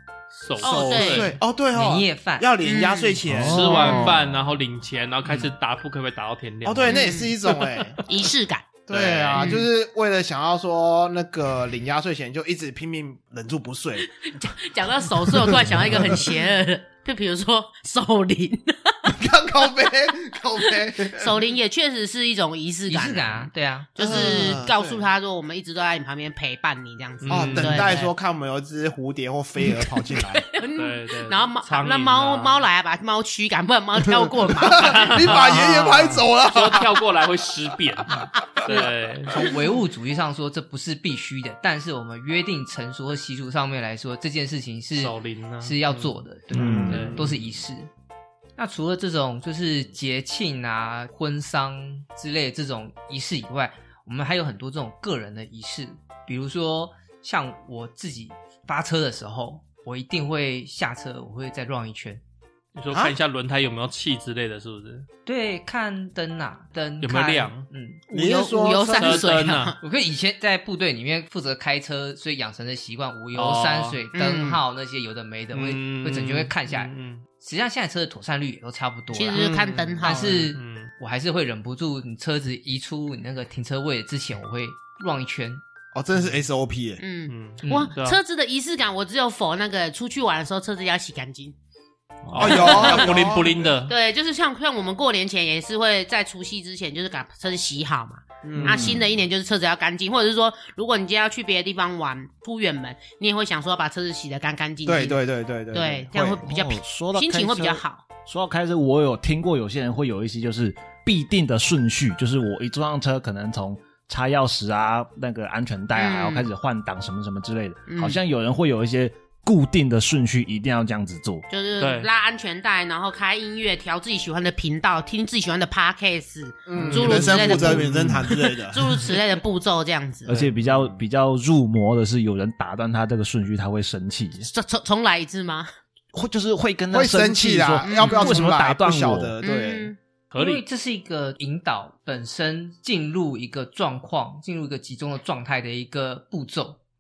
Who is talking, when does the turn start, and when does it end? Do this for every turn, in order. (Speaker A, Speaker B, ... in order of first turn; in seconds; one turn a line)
Speaker A: 0.3-1.4
Speaker B: 0.6-1.4
Speaker C: 0.7-4.1
Speaker D: 0.7-1.1
Speaker D: 1.7-2.5
Speaker B: 2.6-4.2
Speaker E: 3.3-4.2
Speaker A: 3.4-8.0
Speaker C: 6.7-8.0
Speaker B: 6.9-7.3
Speaker B: 8.1-8.8
Speaker C: 8.9-14.1
Speaker A: 8.9-9.6
Speaker B: 9.4-9.7
Speaker B: 14.2-19.0
Speaker C: 15.5-16.1
Speaker C: 19.1-21.4
Speaker B: 20.7-28.1
Speaker D: 22.9-23.9
Speaker C: 24.0-25.1
Speaker A: 27.2-27.9
Speaker C: 27.3-30.4
Speaker B: 29.7-35.4
Speaker A: 30.8-32.7
Speaker C: 34.2-37.0
Speaker A: 34.8-39.4
Speaker D: 38.7-47.9
Speaker A: 45.0-47.3
Speaker E: 46.5-47.2
Speaker D: 48.6-62.2
Speaker A: 62.8-65.1
Speaker D: 65.3-68.0
Speaker A: 67.0-67.7
Speaker C: 68.1-69.3
Speaker B: 68.1-69.8
Speaker A: 69.0-69.8
Speaker D: 69.8-79.5
Speaker A: 73.3-74.0
Speaker B: 74.1-74.6
Speaker A: 75.5-77.2
Speaker B: 79.1-80.4
Speaker C: 79.3-80.2
Speaker A: 80.0-80.9
Speaker D: 80.0-85.6
Speaker C: 85.9-87.0
Speaker B: 87.0-91.5
Speaker A: 87.3-88.2
Speaker D: 87.6-87.9
Speaker A: 92.3-93.9
Speaker C: 92.3-93.7
Speaker B: 92.4-93.1
Speaker B: 93.9-105.2
Speaker C: 98.4-99.0
Speaker E: 98.6-99.0
Speaker C: 104.8-106.5
Speaker B: 105.7-108.1
Speaker E: 106.5-121.5
Speaker B: 116.0-116.5
Speaker B: 117.9-118.2
Speaker B: 121.5-130.3
Speaker A: 121.8-122.1
Speaker C: 126.7-129.0
Speaker E: 126.9-128.3
Speaker A: 126.9-127.2
Speaker E: 130.2-134.5
Speaker A: 130.3-130.6
Speaker B: 134.5-135.7
Speaker E: 136.1-139.4
Speaker C: 136.9-139.9
Speaker B: 137.8-138.5
Speaker B: 139.4-140.0
Speaker A: 140.3-140.6
Speaker D: 140.3-146.8